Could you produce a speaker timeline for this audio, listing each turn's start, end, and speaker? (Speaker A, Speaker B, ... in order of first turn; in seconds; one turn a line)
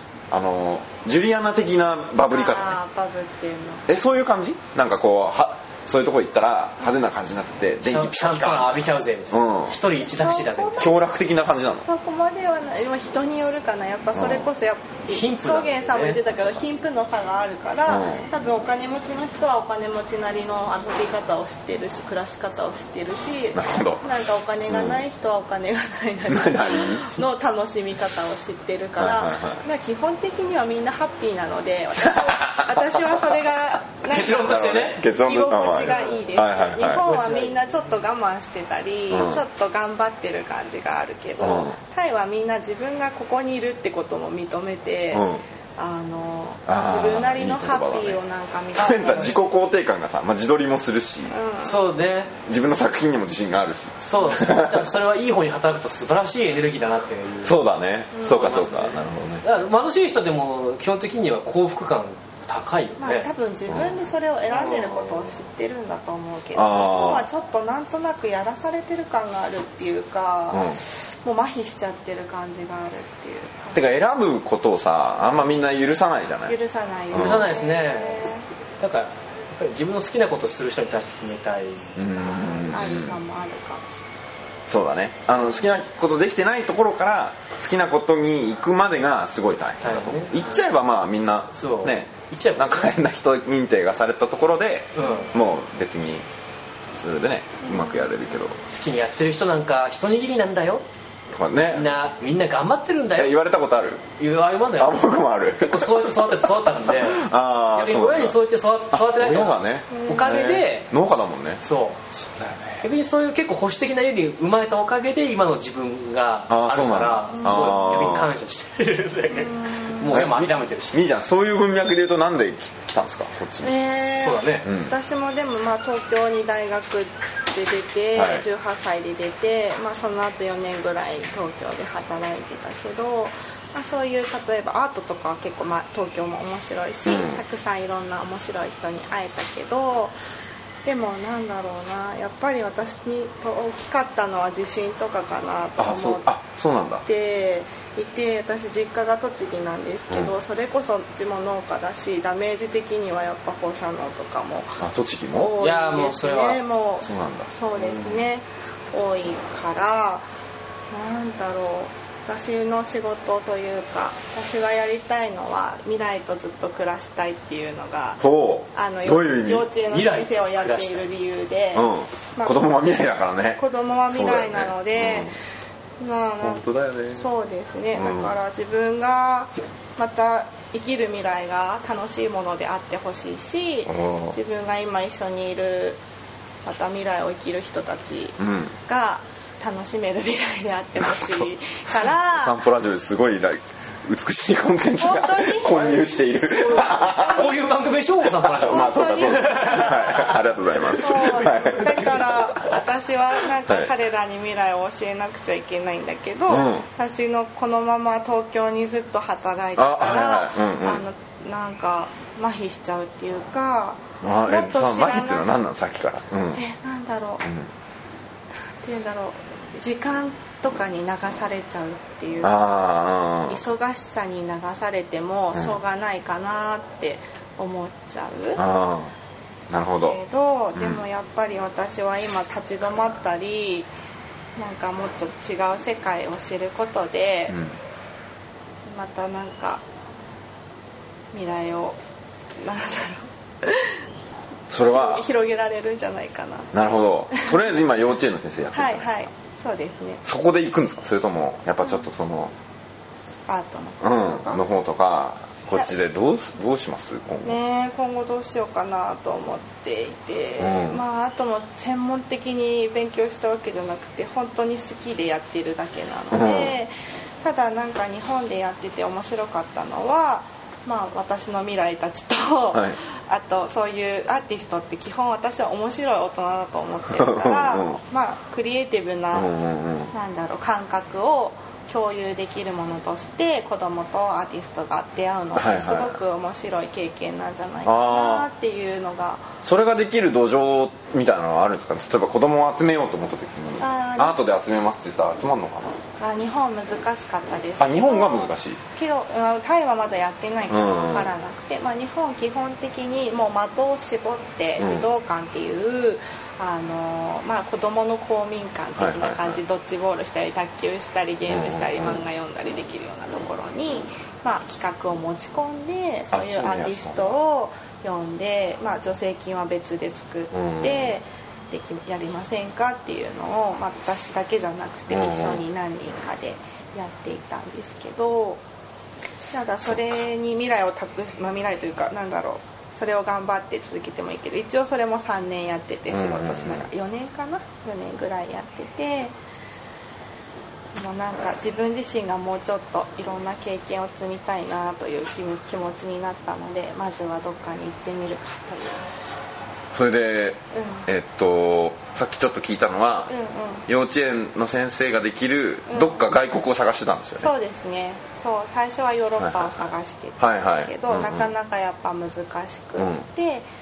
Speaker A: 0.3-2.8
Speaker B: 2.3-3.9
Speaker A: 3.9-9.8
Speaker C: 7.8-10.9
Speaker B: 10.0-11.0
Speaker A: 10.8-11.8
Speaker B: 11.7-49.5
Speaker A: 14.1-14.5
Speaker C: 15.1-16.6
Speaker A: 17.9-18.3
Speaker A: 23.5-25.0
Speaker A: 26.2-27.2
Speaker A: 29.0-29.6
Speaker A: 32.0-33.5
Speaker C: 34.1-35.0
Speaker A: 34.1-37.0
Speaker C: 35.9-36.2
Speaker C: 36.8-37.9
Speaker A: 39.1-39.4
Speaker A: 41.4-41.8
Speaker A: 45.1-45.4
Speaker A: 46.7-48.2
Speaker A: 48.7-51.3
Speaker B: 51.3-51.9
Speaker C: 51.6-52.3
Speaker A: 52.5-54.9
Speaker C: 54.0-57.6
Speaker A: 57.4-59.4
Speaker B: 58.1-58.7
Speaker C: 58.3-63.3
Speaker B: 63.0-73.9
Speaker C: 64.5-65.1
Speaker A: 66.5-67.2
Speaker A: 70.5-70.8
Speaker A: 73.7-76.5
Speaker B: 76.5-78.5
Speaker A: 77.1-77.5
Speaker C: 77.1-82.1
Speaker A: 82.0-83.2
Speaker B: 82.7-83.8
Speaker A: 84.7-96.2
Speaker C: 89.8-90.4
Speaker C: 91.6-92.9
Speaker C: 94.9-95.3
Speaker B: 95.0-95.3
Speaker A: 96.9-98.6
Speaker B: 97.6-98.1
Speaker C: 98.7-100.8
Speaker A: 101.3-101.9
Speaker C: 101.7-103.4
Speaker A: 103.1-104.1
Speaker C: 104.2-105.1
Speaker A: 104.8-106.3
Speaker C: 105.6-110.9
Speaker A: 106.9-108.4
Speaker A: 108.9-112.8
Speaker B: 109.9-110.4
Speaker C: 111.6-112.1
Speaker C: 112.8-121.0
Speaker A: 116.5-118.3
Speaker B: 117.3-117.8
Speaker B: 119.3-120.2
Speaker A: 120.1-123.7
Speaker B: 123.6-140.1
Speaker C: 124.2-124.7
Speaker A: 124.6-124.9
Speaker A: 128.1-128.4
Speaker A: 137.1-137.4
Speaker B: 140.8-146.3
Speaker A: 145.8-147.0
Speaker B: 147.0-160.3
Speaker A: 150.1-150.3
Speaker A: 154.8-155.5
Speaker C: 155.6-156.6
Speaker A: 157.0-157.5
Speaker C: 157.8-158.2
Speaker B: 160.9-168.2
Speaker A: 168.2-169.7
Speaker B: 168.7-172.7
Speaker C: 169.9-171.0
Speaker A: 171.7-175.3
Speaker B: 173.6-175.3
Speaker B: 176.0-186.0
Speaker A: 176.4-177.3
Speaker A: 177.9-178.3
Speaker A: 183.9-184.3
Speaker B: 186.6-192.6
Speaker A: 188.4-188.7
Speaker A: 191.0-191.5
Speaker A: 192.0-197.6
Speaker B: 195.0-196.2
Speaker C: 196.5-200.4
Speaker A: 198.2-202.8
Speaker B: 198.6-200.1
Speaker B: 200.9-215.5
Speaker A: 206.5-206.8
Speaker A: 209.8-211.0
Speaker A: 214.2-216.6
Speaker B: 216.5-217.5
Speaker A: 217.4-217.7
Speaker B: 218.8-222.9
Speaker A: 222.4-223.6
Speaker B: 223.4-228.6
Speaker A: 228.6-229.1
Speaker A: 229.7-230.2
Speaker B: 229.7-233.9
Speaker A: 230.8-231.0
Speaker B: 234.6-237.6
Speaker A: 237.5-237.8
Speaker B: 238.9-239.8
Speaker B: 241.3-242.0
Speaker B: 242.6-244.0
Speaker A: 244.7-245.3
Speaker B: 244.8-246.7
Speaker A: 246.7-249.2
Speaker B: 247.3-247.6
Speaker B: 248.7-250.2
Speaker A: 250.2-252.5
Speaker B: 253.5-254.6
Speaker A: 254.0-257.6
Speaker B: 257.4-279.5
Speaker A: 260.6-261.0
Speaker A: 266.3-266.8
Speaker A: 277.1-278.0
Speaker A: 279.3-280.1
Speaker B: 280.1-289.5
Speaker A: 285.5-286.2
Speaker A: 287.9-288.5
Speaker A: 289.6-296.0
Speaker B: 293.8-294.4
Speaker B: 296.2-328.6
Speaker A: 297.8-298.8
Speaker A: 300.7-301.3
Speaker A: 304.8-305.1
Speaker A: 308.9-309.6
Speaker A: 311.5-312.2
Speaker A: 316.3-317.4
Speaker A: 320.5-321.1
Speaker A: 325.1-325.6
Speaker B: 329.5-339.3
Speaker A: 336.1-336.9
Speaker B: 340.9-349.1
Speaker A: 349.9-353.3
Speaker B: 350.7-351.1
Speaker B: 353.3-353.9
Speaker A: 353.9-357.5
Speaker B: 355.9-356.2
Speaker B: 357.4-363.6
Speaker A: 359.4-359.9
Speaker A: 360.4-361.5
Speaker A: 363.0-363.2